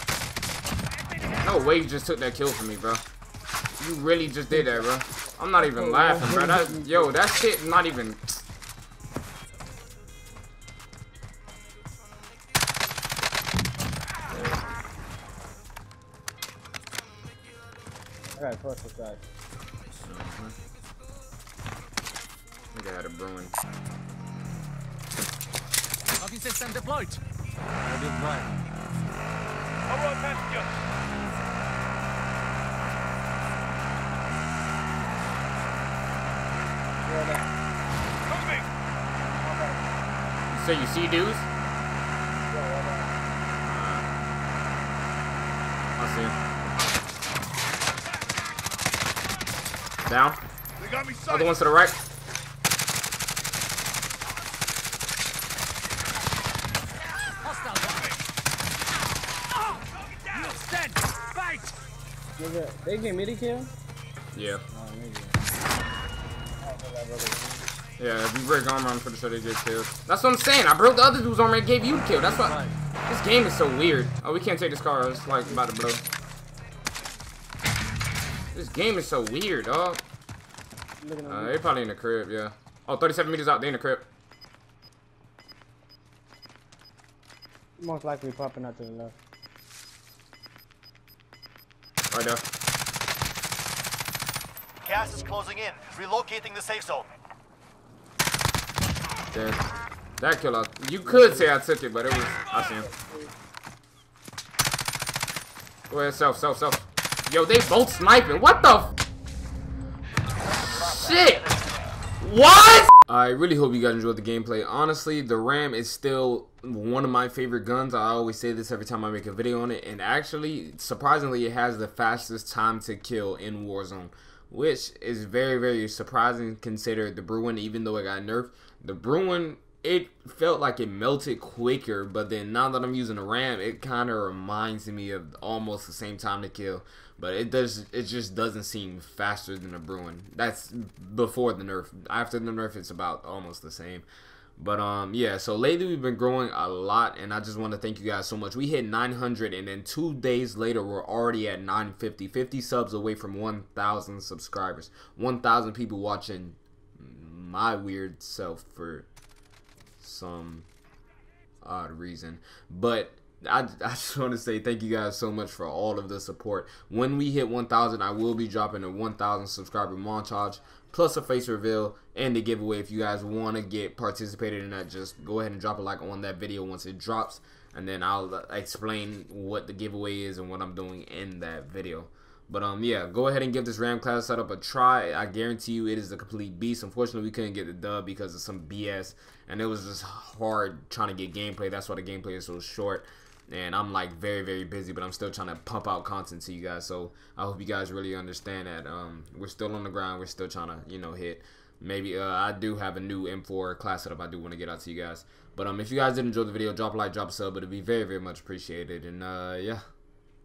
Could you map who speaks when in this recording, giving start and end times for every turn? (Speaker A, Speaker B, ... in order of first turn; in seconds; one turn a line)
Speaker A: 1.4-3.0
Speaker A: 3.8-8.4
Speaker B: 5.6-7.2
Speaker A: 14.3-14.6
Speaker B: 18.4-19.2
Speaker A: 20.0-20.6
Speaker A: 22.7-23.6
Speaker C: 26.2-27.2
Speaker C: 27.8-28.5
Speaker D: 29.9-30.5
Speaker B: 37.0-37.5
Speaker B: 39.4-39.9
Speaker A: 40.5-41.5
Speaker B: 42.5-43.1
Speaker A: 43.6-44.1
Speaker A: 46.0-46.4
Speaker A: 50.0-50.4
Speaker A: 51.2-52.0
Speaker C: 57.4-58.2
Speaker C: 60.2-61.8
Speaker B: 62.4-63.7
Speaker A: 64.3-64.6
Speaker B: 64.7-65.4
Speaker B: 66.6-67.7
Speaker A: 68.0-76.0
Speaker C: 72.1-72.8
Speaker A: 78.5-80.0
Speaker B: 81.0-81.5
Speaker A: 81.3-84.1
Speaker B: 87.8-89.2
Speaker A: 92.1-92.4
Speaker D: 94.8-97.1
Speaker A: 99.3-99.6
Speaker A: 100.2-102.9
Speaker B: 102.8-103.3
Speaker A: 105.9-108.9
Speaker A: 110.5-111.5
Speaker A: 112.2-144.1
Speaker A: 144.6-159.1
Speaker A: 160.0-160.7
Speaker A: 161.6-209.8